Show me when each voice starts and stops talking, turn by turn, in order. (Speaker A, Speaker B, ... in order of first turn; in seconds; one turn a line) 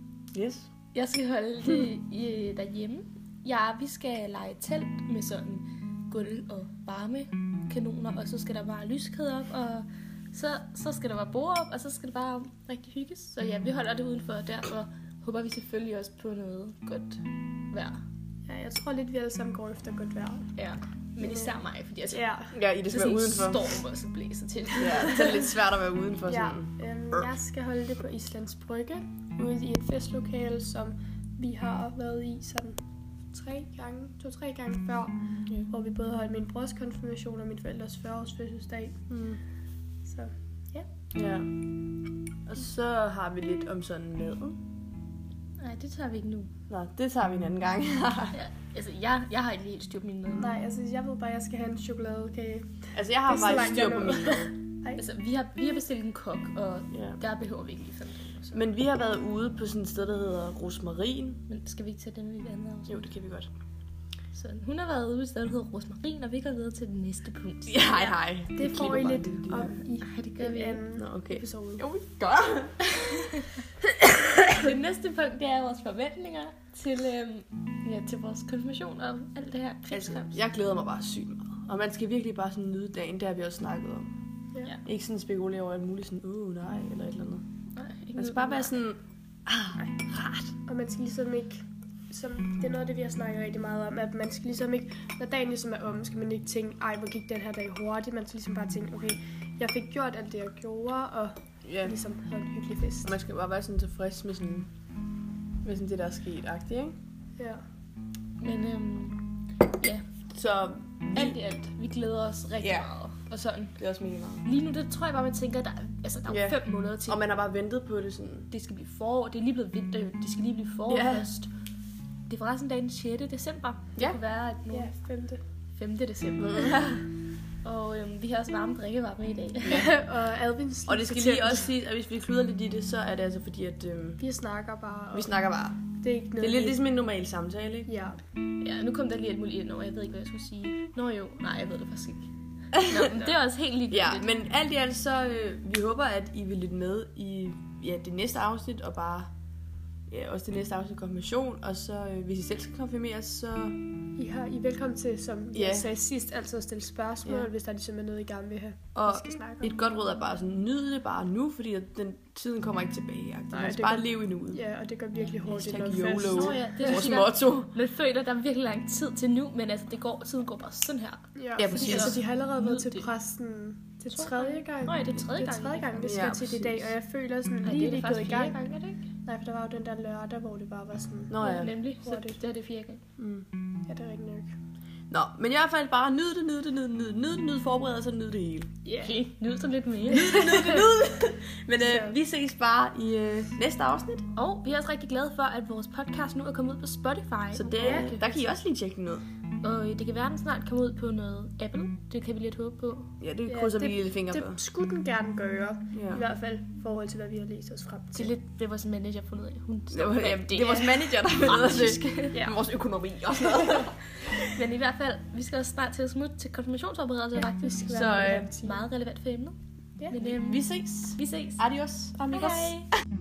Speaker A: 0.3-0.7
Speaker B: 0.9-18.0
Speaker C: 18.5-20.5
Speaker B: 20.6-22.3
Speaker C: 21.2-21.5
Speaker C: 22.1-22.6
Speaker A: 22.5-23.7
Speaker B: 22.9-25.5
Speaker A: 24.8-27.3
Speaker C: 26.3-32.8
Speaker C: 33.3-35.2
Speaker C: 35.7-39.0
Speaker A: 39.1-39.4
Speaker C: 40.0-40.8
Speaker A: 41.1-41.6
Speaker A: 42.5-44.6
Speaker B: 45.6-46.5
Speaker A: 46.7-48.4
Speaker B: 48.3-50.6
Speaker C: 50.4-55.0
Speaker A: 52.9-54.5
Speaker B: 55.0-58.6
Speaker A: 56.9-57.2
Speaker A: 58.5-61.4
Speaker B: 61.5-63.0
Speaker A: 62.9-63.5
Speaker B: 64.3-68.2
Speaker A: 67.7-69.8
Speaker C: 68.5-71.8
Speaker B: 69.9-70.8
Speaker A: 71.0-73.0
Speaker B: 74.4-80.4
Speaker A: 79.9-84.1
Speaker A: 84.8-87.4
Speaker B: 87.8-88.8
Speaker A: 88.2-90.5
Speaker C: 90.7-103.2
Speaker A: 101.6-102.0
Speaker A: 103.0-104.7
Speaker A: 105.6-107.0
Speaker C: 107.4-107.6
Speaker B: 108.4-110.0
Speaker A: 110.3-111.4
Speaker B: 111.1-113.8
Speaker A: 112.6-112.9
Speaker A: 113.8-114.5
Speaker B: 114.4-117.2
Speaker A: 116.3-118.6
Speaker B: 118.5-121.5
Speaker A: 120.9-121.3
Speaker B: 122.3-124.9
Speaker C: 124.7-125.4
Speaker B: 125.8-127.0
Speaker A: 126.4-127.1
Speaker B: 127.6-130.0
Speaker C: 129.7-131.7
Speaker A: 130.9-134.2
Speaker C: 134.2-135.3
Speaker A: 135.1-137.9
Speaker C: 136.0-136.8
Speaker C: 137.9-138.2
Speaker B: 138.6-144.3
Speaker A: 143.9-149.3
Speaker A: 150.1-153.8
Speaker C: 154.2-159.8
Speaker A: 155.5-155.9
Speaker A: 157.2-157.5
Speaker A: 158.9-164.6
Speaker C: 163.5-167.2
Speaker A: 165.5-167.7
Speaker B: 166.3-173.1
Speaker C: 171.3-178.6
Speaker A: 171.6-172.2
Speaker B: 174.1-176.2
Speaker A: 176.1-176.9
Speaker B: 177.6-179.1
Speaker C: 179.2-181.4
Speaker A: 181.3-181.8
Speaker B: 181.4-183.0
Speaker C: 182.0-182.4
Speaker A: 183.2-183.5
Speaker C: 183.9-184.5
Speaker A: 185.1-188.7
Speaker C: 188.8-189.2
Speaker B: 189.0-190.9
Speaker A: 190.1-194.3
Speaker C: 191.8-192.2
Speaker B: 194.3-198.6
Speaker A: 197.5-199.2
Speaker C: 197.8-198.1
Speaker B: 199.6-203.1
Speaker A: 203.2-204.6
Speaker C: 203.5-208.3
Speaker A: 205.9-206.2
Speaker B: 208.2-212.5
Speaker A: 209.9-214.3
Speaker C: 212.3-212.6
Speaker B: 214.4-219.6
Speaker C: 217.4-218.8
Speaker A: 217.9-218.5
Speaker B: 220.1-221.6
Speaker A: 220.2-222.8
Speaker B: 222.3-222.9